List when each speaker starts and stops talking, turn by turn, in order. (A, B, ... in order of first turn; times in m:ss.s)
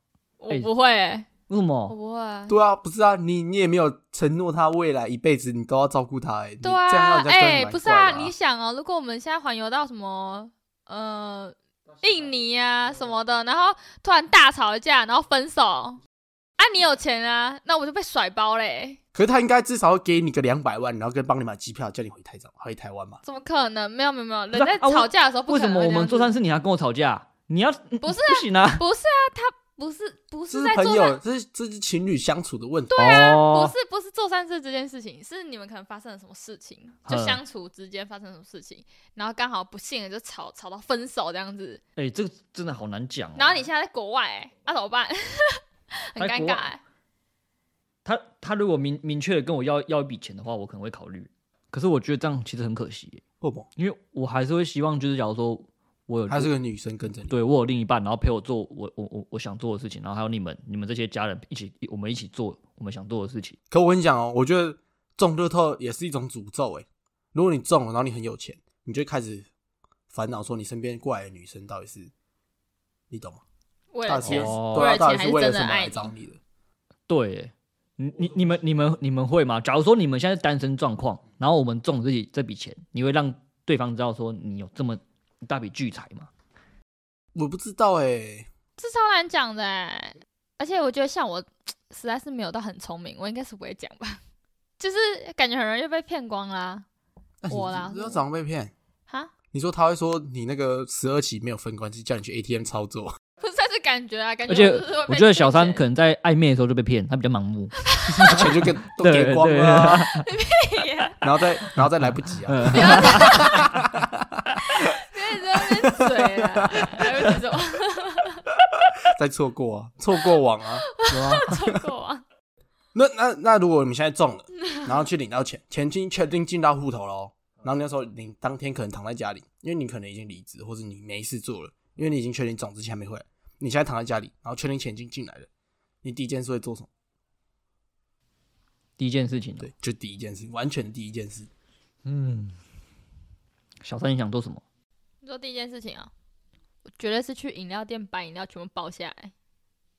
0:00.4-0:01.3 A
0:01.5-0:01.9 B
0:01.9-0:02.5 A
0:02.5-0:08.3 C
0:06.6-0:16.0 A
0:16.6-0:19.0 A
0:19.1-0:23.2 C
0:23.2-0:26.3 A
0:24.5-0:28.8 B
0:28.0-0:31.2 A
0:30.5-0:33.1 C
0:32.9-0:41.8 A
0:33.0-0:33.7 B
0:37.0-0:37.4 B
0:42.0-0:43.6 B
0:43.4-0:46.8 A
0:46.2-0:46.6 B
0:48.0-0:53.2 B
0:53.4-0:53.7 C
0:53.8-0:56.5 B
0:56.3-0:57.3 C
0:57.3-1:03.6 B
1:03.7-1:09.5 C
1:10.1-1:12.1 C
1:13.1-1:13.4 C
1:13.9-1:16.1 A
1:14.0-1:16.4 C
1:14.2-1:14.9 B
1:17.1-1:26.3 B
1:27.3-1:28.5 C
1:28.8-1:34.2 A
1:34.8-1:36.8 A
1:37.4-1:38.7 C
1:37.5-1:38.2 A
1:39.5-1:43.2 C
1:43.4-1:45.8 A
1:44.5-1:50.2 B
1:47.9-1:48.5 A
1:48.1-1:50.1 C
1:50.2-1:51.5 A
1:51.2-1:55.0 C
1:52.4-1:53.8 B
1:52.7-1:53.6 A
1:54.7-1:58.5 A
1:55.5-1:57.1 C
1:56.9-1:57.3 B
1:59.0-2:00.9 C
2:00.8-2:02.2 A
2:01.1-2:01.5 B
2:01.4-2:01.8 C
2:02.9-2:15.5 C
2:16.0-2:16.9 C
2:19.0-2:19.7 B
2:19.6-2:21.5 C
2:22.0-2:22.6 B
2:23.8-2:24.6 B
2:25.2-2:26.1 A
2:27.0-2:29.3 A